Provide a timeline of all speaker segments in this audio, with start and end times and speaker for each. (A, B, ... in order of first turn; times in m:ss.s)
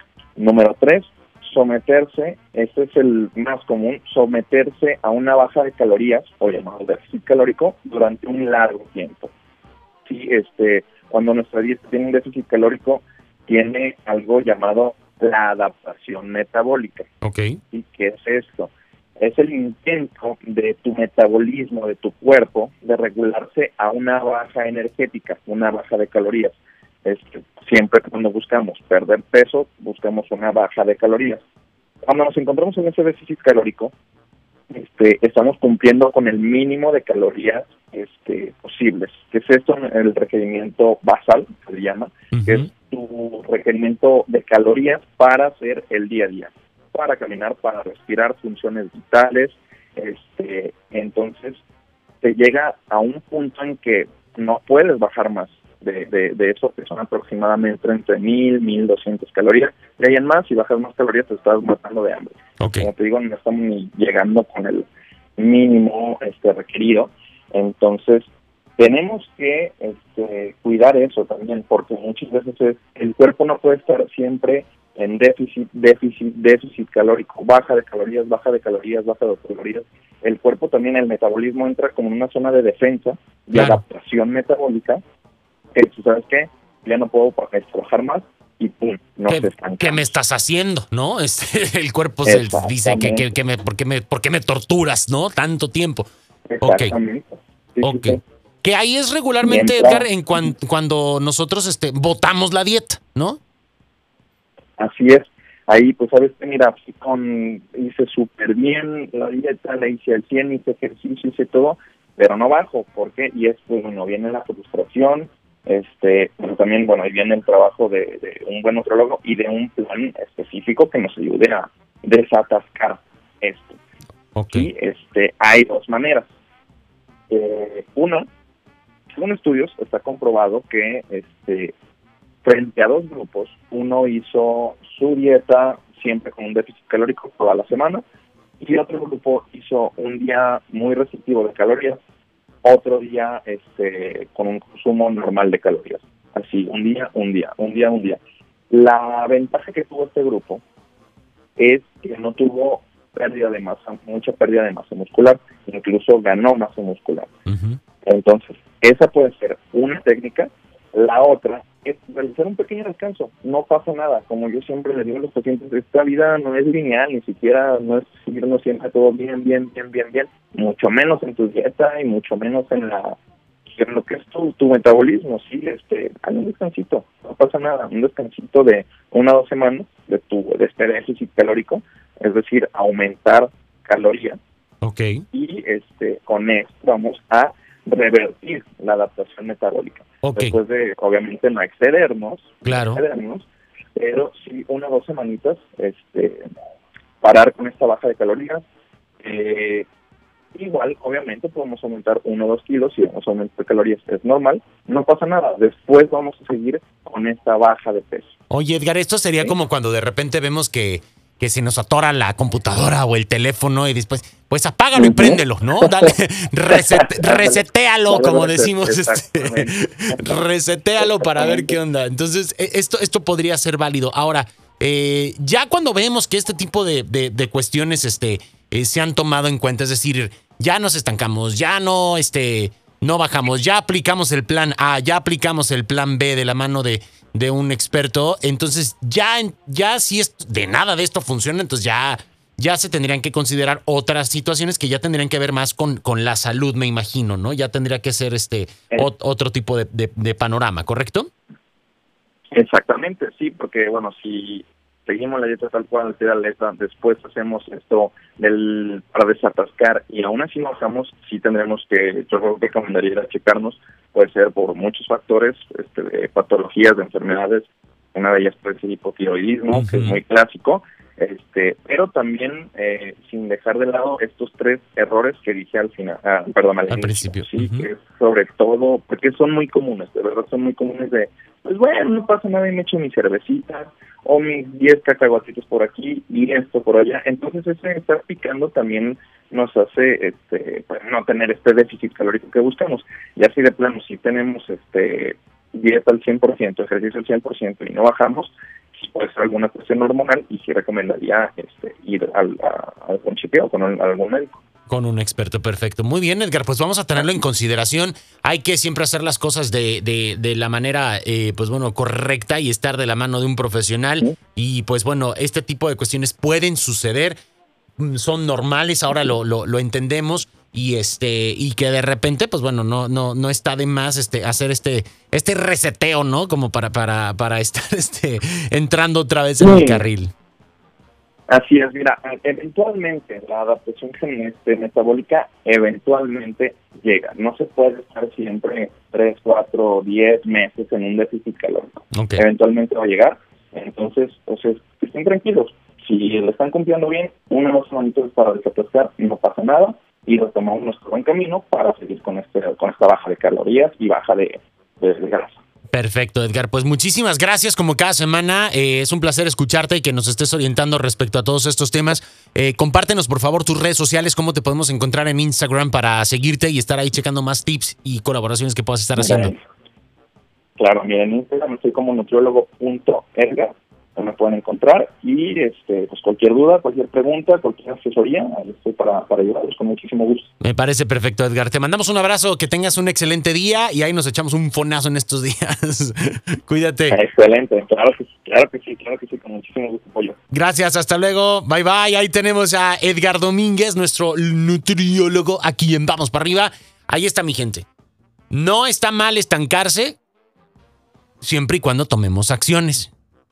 0:00.4-0:09.3 A
0:10.1-0:17.1 A
0:17.2-0:17.6 B
0:17.7-0:31.4 A
0:32.0-0:33.9 A
0:34.7-0:51.6 A
0:42.3-0:42.7 B
0:52.2-1:25.0 A
1:02.6-1:02.9 B
1:23.6-1:23.8 B
1:25.7-1:30.1 A
1:29.3-1:36.1 B
1:32.2-1:33.3 A
1:36.5-1:38.2 A
1:36.6-1:37.0 B
1:37.8-1:43.4 B
1:39.4-1:40.1 A
1:44.8-2:03.8 A
2:04.4-2:04.7 B
2:04.5-2:06.3 A
2:07.3-2:08.3 A
2:09.1-2:11.8 A
2:12.4-2:18.0 A
2:18.6-2:22.0 A
2:22.6-2:28.2 A
2:28.7-2:30.6 A
2:31.6-2:37.3 A
2:37.5-2:37.8 B
2:38.0-2:53.2 A
2:53.7-3:04.4 A
3:04.8-3:05.2 B
3:05.3-3:16.5 A
3:10.2-3:10.6 B
3:12.6-3:13.0 B
3:17.2-3:18.6 A
3:19.2-3:19.9 A
3:20.5-3:28.3 A
3:28.5-4:11.3 B
3:35.0-3:36.1 A
3:36.7-3:40.4 A
3:41.0-3:41.8 A
4:12.5-5:04.6 A
4:29.7-4:30.2 B
4:36.9-4:37.9 B
5:04.9-5:17.4 B
5:18.0-5:30.3 B
5:29.6-5:30.0 A
5:31.5-5:55.6 A
5:42.1-5:42.4 B
5:55.9-6:09.5 B
6:09.2-6:09.6 A
6:10.8-6:20.5 A
6:20.6-6:27.2 B
6:27.1-6:30.4 A
6:30.5-6:37.9 B
6:38.5-6:40.2 B
6:41.4-6:43.1 B